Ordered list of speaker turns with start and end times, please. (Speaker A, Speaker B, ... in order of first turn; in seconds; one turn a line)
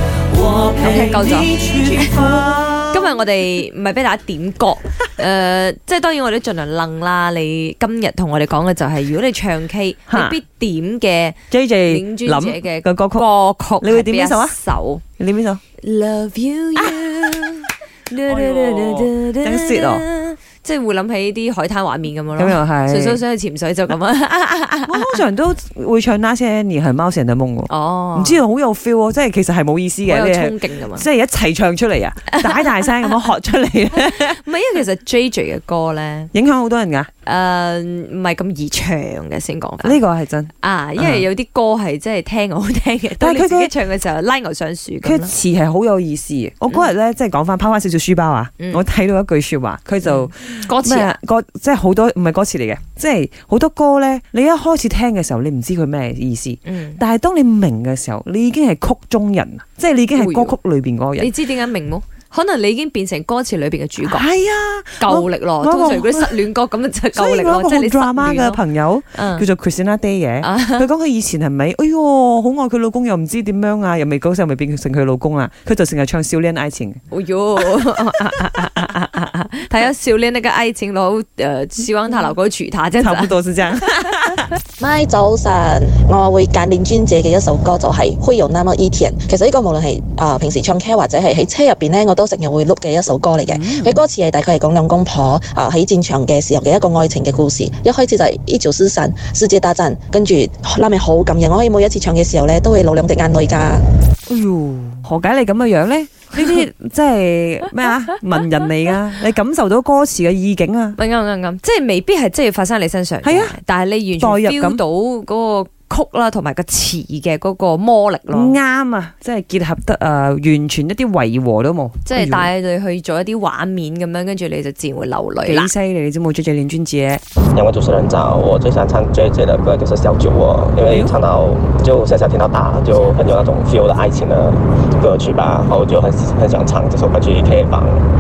Speaker A: 0.3-2.5
Speaker B: 0.7-15.0
Speaker C: 0.9-3.0
Speaker C: 10.1-10.4
Speaker C: 11.5-13.3
Speaker C: 13.8-14.6
Speaker C: 15.2-15.6
Speaker B: 15.8-25.2
Speaker C: 18.2-20.1
Speaker C: 22.4-23.2
Speaker C: 24.9-34.4
Speaker B: 27.7-28.4
Speaker B: 30.1-31.1
Speaker B: 32.3-32.9
Speaker B: 34.0-36.3
Speaker C: 36.3-37.1
Speaker B: 37.2-40.0
Speaker C: 39.8-41.2
Speaker B: 40.5-45.3
Speaker C: 43.2-43.7
Speaker C: 45.0-61.3
Speaker B: 50.0-51.1
Speaker B: 56.7-57.0
Speaker B: 60.2-60.6
Speaker B: 61.2-64.3
Speaker C: 64.0-66.4
Speaker B: 65.0-68.6
Speaker C: 67.2-77.0
Speaker B: 69.1-69.5
Speaker B: 70.4-70.8
Speaker B: 77.1-83.4
Speaker C: 83.0-84.6
Speaker D: 84.8-103.8
Speaker C: 93.4-94.0
Speaker C: 104.3-111.0
Speaker B: 111.0-118.6
Speaker C: 113.2-113.6
Speaker C: 114.2-114.8
Speaker C: 118.3-122.5
Speaker B: 122.0-125.7
Speaker C: 125.5-127.2
Speaker E: 127.5-138.1